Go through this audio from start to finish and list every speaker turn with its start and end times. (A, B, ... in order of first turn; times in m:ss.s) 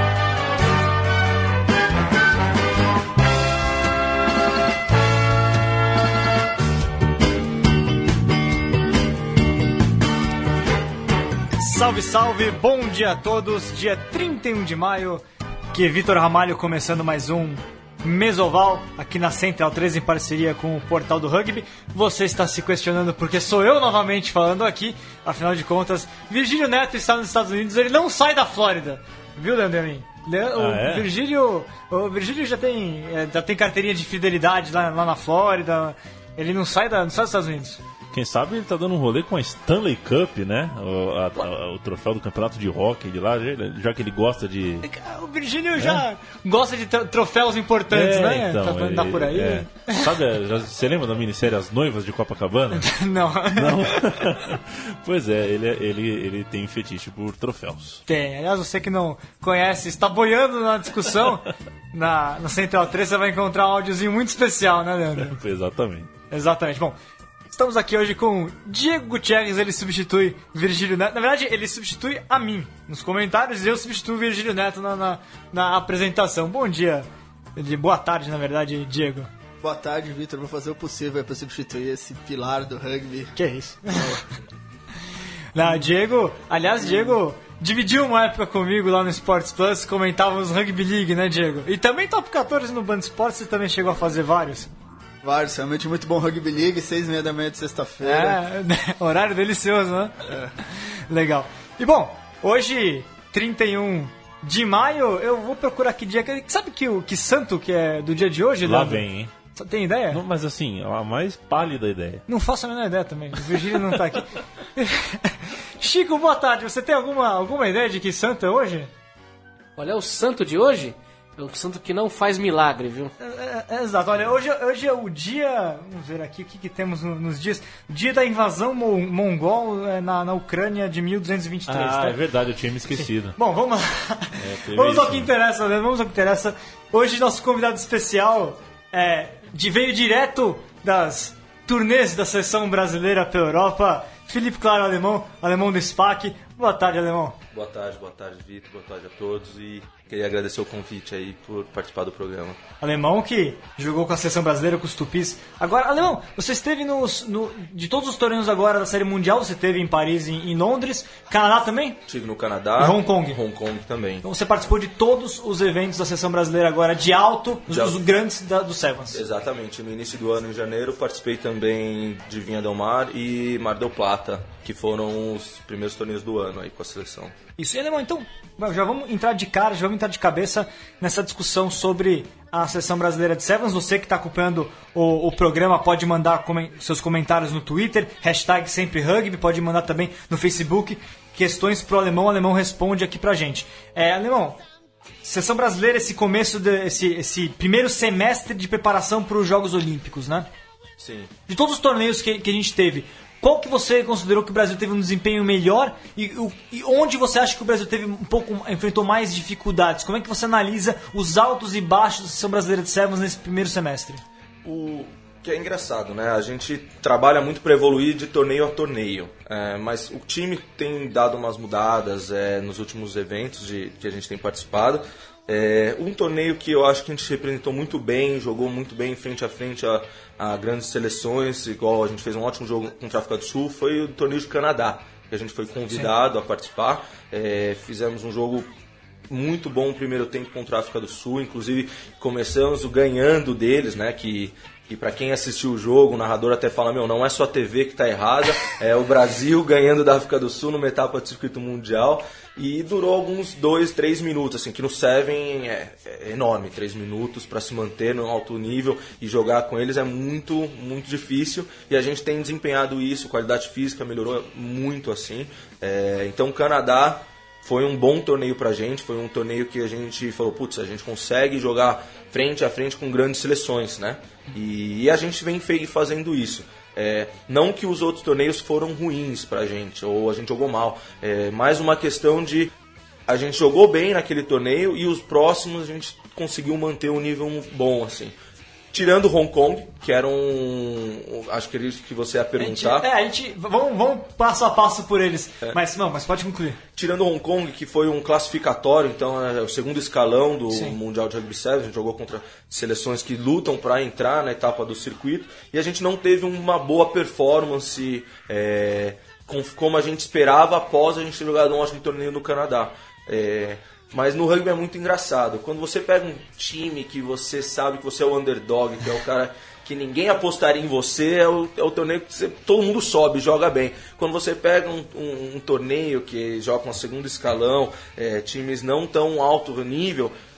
0:11.6-0:15.2 A
0:15.7-0:37.8 A
0:30.5-0:31.1 B
0:38.1-0:44.8 B
0:44.8-0:50.1 A
0:45.8-0:46.0 B
0:47.9-0:52.9 B
0:52.7-0:54.2 A
0:53.6-0:58.0 B
0:58.1-1:05.4 A
1:05.2-1:06.1 B
1:06.3-1:07.0 A
1:07.5-1:19.3 A
1:19.6-1:23.3 C
1:23.4-1:24.2 A
1:25.5-1:34.7 A
1:26.8-1:27.1 C
1:35.2-1:38.4 C
1:38.0-1:40.1 A
1:40.3-1:40.5 C
1:40.7-1:50.2 A
1:48.6-1:49.3 B
1:50.1-1:52.2 B
1:52.3-1:58.9 A
1:53.5-1:53.8 B
1:59.8-2:03.1 D
2:03.2-2:12.2 A
2:11.7-2:13.4 B
2:12.9-2:27.4 A
2:14.4-2:15.3 B
2:27.5-2:32.6 E
2:32.8-2:42.0 A
2:42.1-2:44.2 E
2:42.8-2:43.4 A
2:44.2-2:49.2 A
2:47.7-2:48.0 E
2:49.1-2:57.3 E
2:57.6-3:14.6 A
3:15.2-3:20.5 A
3:21.0-3:21.3 E
3:21.5-3:34.2 A
3:34.6-3:58.7 E
3:59.3-4:42.7 E
4:43.3-4:48.3 E
4:48.9-4:53.1 E
4:52.6-4:56.8 A
4:57.0-5:30.3 E
5:00.7-5:01.0 A